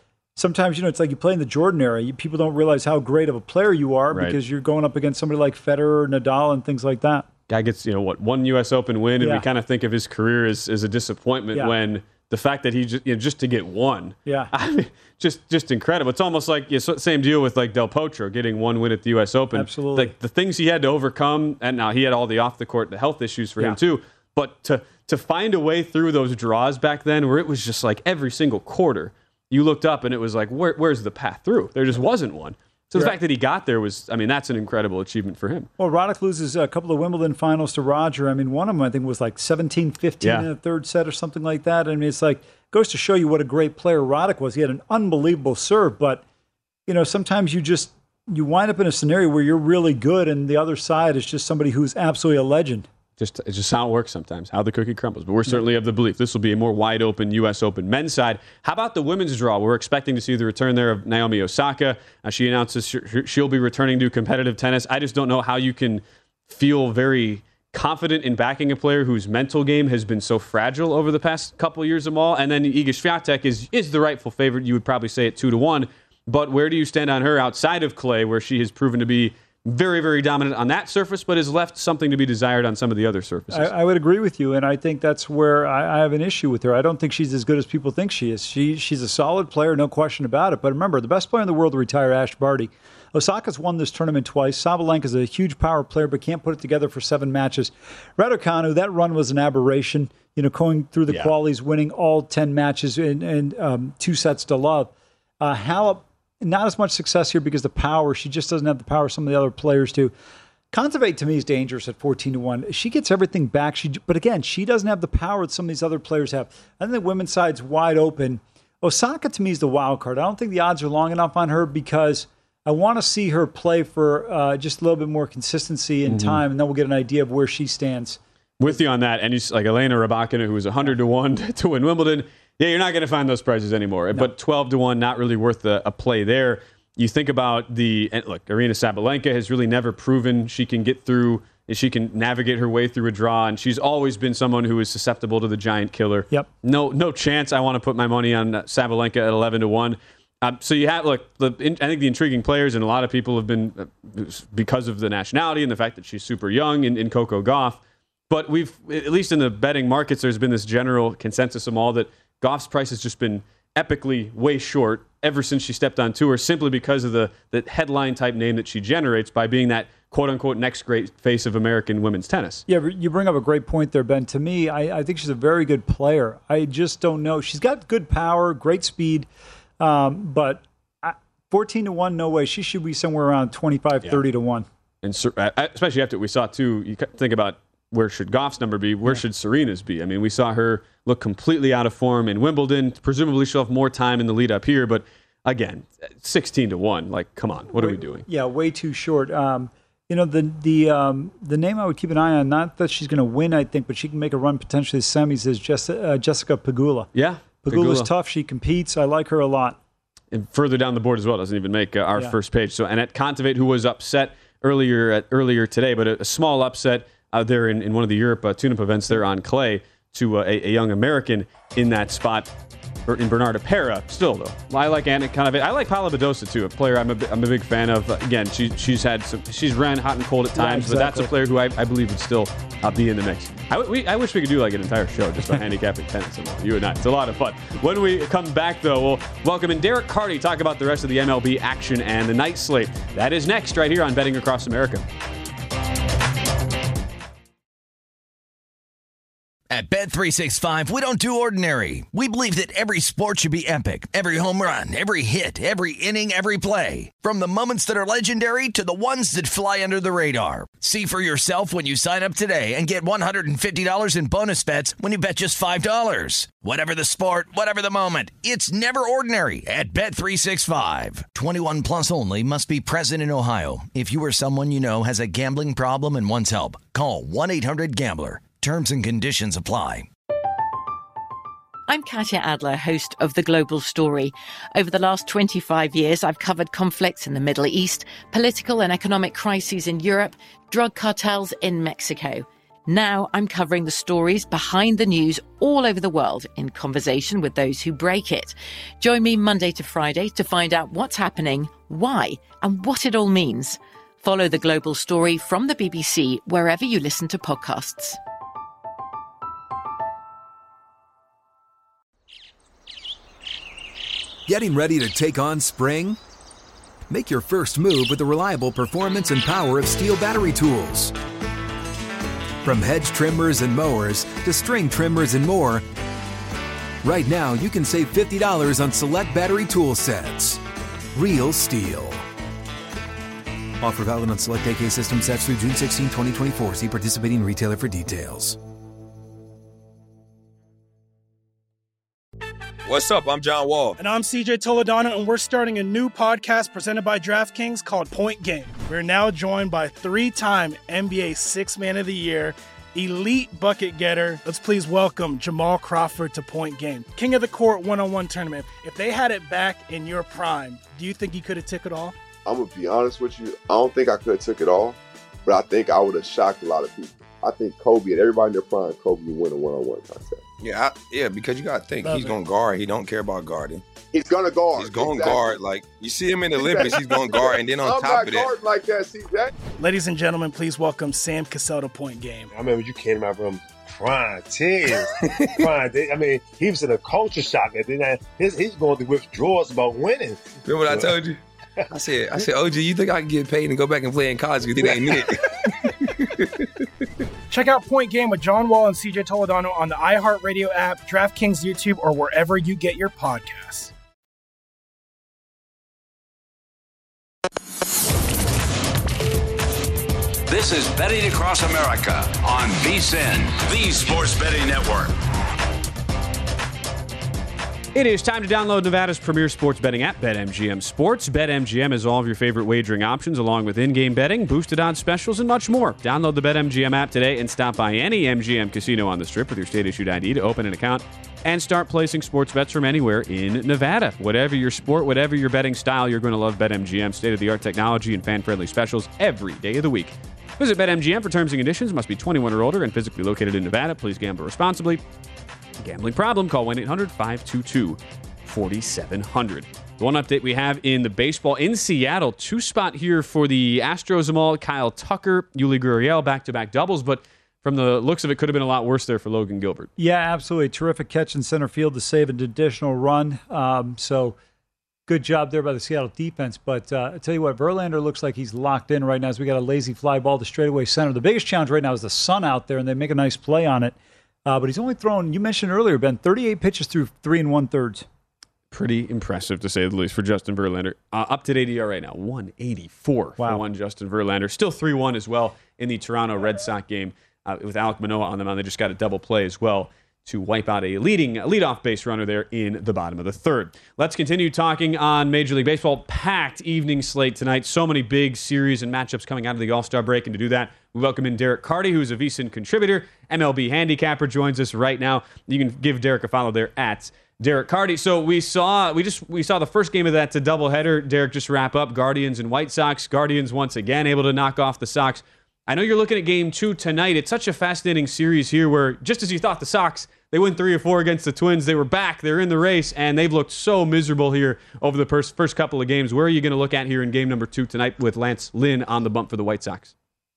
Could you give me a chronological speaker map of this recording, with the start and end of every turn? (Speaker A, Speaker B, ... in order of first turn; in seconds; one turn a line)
Speaker A: 0.3-7.3
Speaker B: 4.1-4.4
Speaker B: 7.5-35.7
Speaker A: 9.2-9.4
Speaker A: 14.2-14.5
Speaker A: 19.5-20.1
Speaker A: 35.8-46.2
Speaker B: 40.2-40.5
Speaker A: 46.9-52.9
Speaker B: 53.2-83.7
Speaker A: 83.5-110.1
Speaker A: 110.7-128.2
Speaker B: 126.1-126.4
Speaker B: 128.6-172.6
Speaker A: 172.7-179.3
Speaker A: 179.8-184.7
Speaker B: 185.0-198.2
Speaker A: 197.7-207.1
Speaker B: 207.1-208.1
Speaker A: 207.6-209.8
Speaker B: 210.3-222.5
Speaker B: 223.1-245.0
Speaker A: 230.5-231.3
Speaker C: 249.7-280.1
Speaker D: 281.9-308.2
Speaker E: 314.5-316.2
Speaker E: 317.1-321.1
Speaker E: 322.6-325.8
Speaker E: 327.0-330.6
Speaker E: 331.1-332.2
Speaker E: 333.8-338.6
Speaker F: 342.8-344.0
Speaker G: 344.0-362.1
Speaker H: 362.4-370.4
Speaker F: 370.6-373.8
Speaker G: 372.0-372.3
Speaker H: 374.1-375.6
Speaker F: 374.8-378.5
Speaker H: 376.5-379.5
Speaker G: 379.8-382.5
Speaker I: 382.5-391.1
Speaker F: 390.6-391.4
Speaker F: 391.9-395.5
Speaker G: 397.5-403.9
Speaker J: 410.5-415.1
Speaker B: 417.9-445.0
Speaker B: 445.8-459.9
Speaker A: 460.0-464.4
Speaker A: 465.1-478.1
Speaker B: 478.7-529.9
Speaker A: 483.4-483.6